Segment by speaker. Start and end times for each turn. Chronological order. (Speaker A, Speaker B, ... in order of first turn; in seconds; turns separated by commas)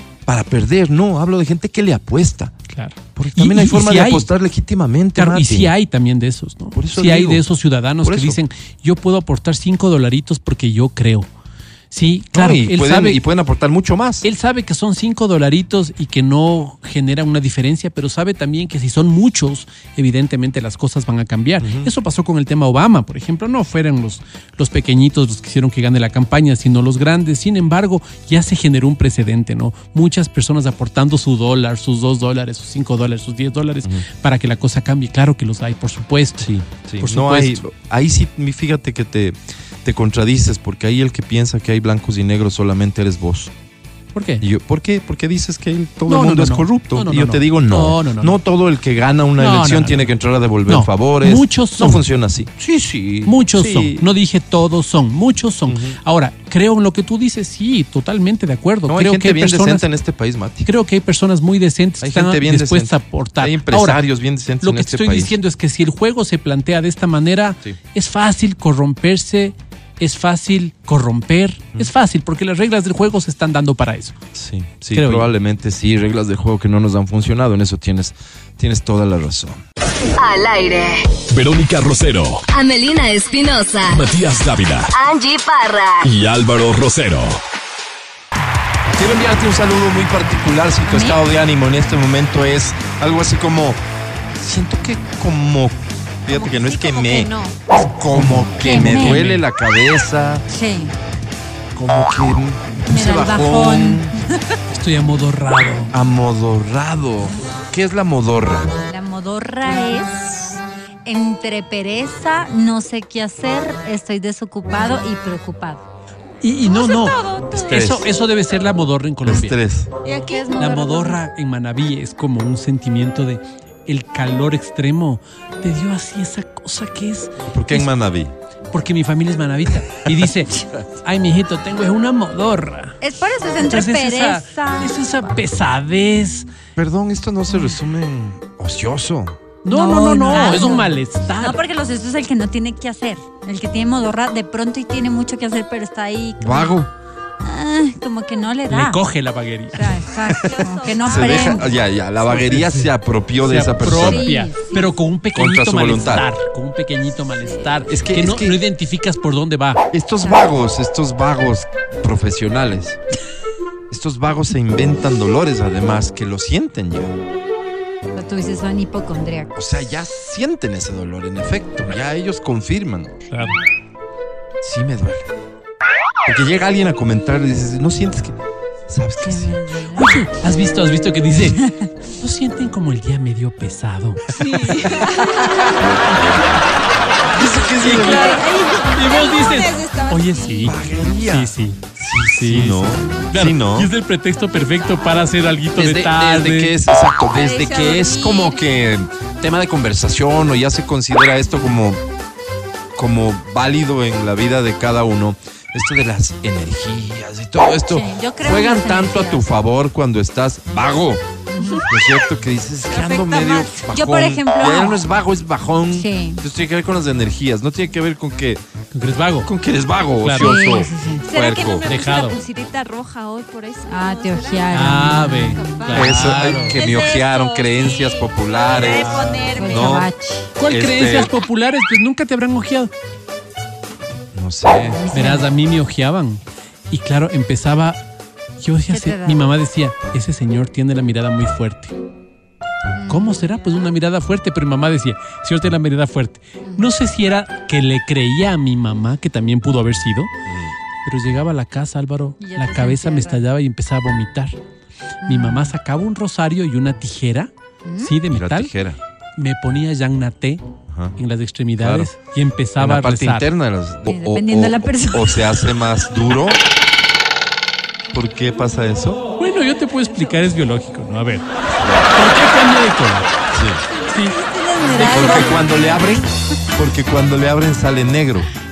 Speaker A: 0.2-2.5, Speaker B: 2.7-4.3, Speaker A: 3.1-5.7, Speaker B: 5.2-11.3, Speaker A: 6.7-7.4, Speaker A: 8.0-8.4, Speaker B: 11.9-13.2, Speaker A: 12.3-14.2, Speaker B: 14.2-37.6, Speaker A: 21.6-21.9, Speaker A: 36.4-43.5, Speaker B: 44.1-44.4, Speaker A: 44.4-54.1, Speaker B: 46.1-48.4, Speaker B: 49.4-50.1, Speaker B: 50.7-52.0, Speaker B: 53.2-59.8, Speaker A: 55.7-56.0, Speaker A: 58.9-60.7, Speaker B: 60.6-64.0, Speaker A: 62.0-65.3, Speaker B: 64.6-74.2, Speaker A: 74.3-79.6, Speaker B: 74.9-75.3, Speaker C: 80.2-81.1, Speaker D: 81.3-82.5, Speaker C: 82.5-84.3, Speaker D: 83.8-85.0, Speaker C: 84.9-86.1, Speaker D: 86.0-87.4, Speaker A: 89.0-93.8, Speaker E: 90.8-91.2, Speaker A: 94.4-100.4, Speaker E: 96.3-97.5, Speaker B: 98.1-99.4, Speaker E: 98.6-99.2, Speaker E: 100.5-100.9, Speaker A: 101.8-104.1, Speaker E: 102.9-104.2, Speaker B: 104.7-105.9, Speaker A: 105.9-108.7, Speaker E: 108.8-115.8, Speaker B: 116.4-119.6, Speaker F: 116.8-117.5, Speaker A: 117.6-118.1, Speaker A: 119.2-119.9, Speaker E: 120.0-121.2, Speaker B: 120.5-127.9, Speaker A: 127.5-128.3, Speaker B: 128.7-133.0, Speaker E: 133.0-134.9, Speaker B: 133.6-136.5, Speaker A: 136.8-139.4, Speaker B: 139.6-141.6, Speaker E: 139.7-146.8, Speaker A: 146.4-146.9, Speaker E: 147.4-149.0, Speaker B: 148.7-150.0, Speaker E: 149.7-151.8, Speaker A: 150.3-154.3, Speaker F: 150.4-151.7, Speaker B: 152.3-159.8, Speaker E: 153.8-154.9, Speaker A: 155.3-156.3, Speaker A: 157.9-158.6, Speaker A: 159.9-163.0, Speaker A: 163.9-167.2, Speaker E: 168.1-169.5, Speaker A: 169.5-173.2, Speaker B: 173.3-173.6, Speaker A: 174.6-175.3, Speaker A: 176.2-178.4, Speaker A: 178.9-179.6, Speaker E: 179.2-180.2, Speaker B: 180.0-184.3, Speaker F: 184.3-185.8, Speaker A: 187.3-188.5, Speaker F: 187.4-190.8, Speaker B: 187.8-196.7, Speaker A: 190.6-193.9, Speaker A: 195.8-202.0, Speaker F: 197.3-198.7, Speaker A: 202.9-211.2, Speaker E: 207.9-209.4, Speaker E: 211.5-211.9, Speaker F: 211.6-211.9, Speaker A: 211.8-218.6, Speaker F: 212.9-213.8, Speaker E: 213.9-215.1, Speaker E: 215.9-216.4, Speaker B: 218.9-219.5, Speaker A: 219.4-221.9, Speaker B: 220.2-220.5, Speaker E: 220.4-221.3, Speaker F: 221.2-230.0, Speaker B: 221.8-222.4, Speaker E: 223.9-226.1, Speaker B: 224.7-226.8, Speaker A: 225.9-230.1, Speaker E: 229.5-230.5, Speaker B: 230.6-232.9, Speaker A: 230.6-231.3, Speaker A: 234.3-235.0, Speaker E: 234.8-235.5, Speaker B: 235.1-238.0, Speaker B: 238.6-241.9, Speaker E: 238.9-239.5, Speaker E: 242.9-243.4, Speaker B: 243.1-250.3, Speaker E: 246.7-246.9, Speaker A: 250.4-250.7, Speaker B: 251.0-254.6, Speaker E: 252.4-253.4, Speaker E: 255.2-255.7, Speaker B: 255.2-258.7, Speaker E: 257.8-258.1, Speaker A: 258.3-259.0, Speaker B: 259.4-263.5, Speaker A: 260.9-261.1, Speaker A: 261.8-262.1, Speaker A: 262.8-266.6, Speaker E: 264.0-265.6, Speaker A: 268.1-269.2, Speaker B: 269.4-271.5, Speaker B: 272.1-273.3, Speaker A: 273.5-273.8, Speaker E: 274.1-276.2, Speaker B: 274.1-274.4, Speaker B: 274.9-275.4, Speaker A: 274.9-278.5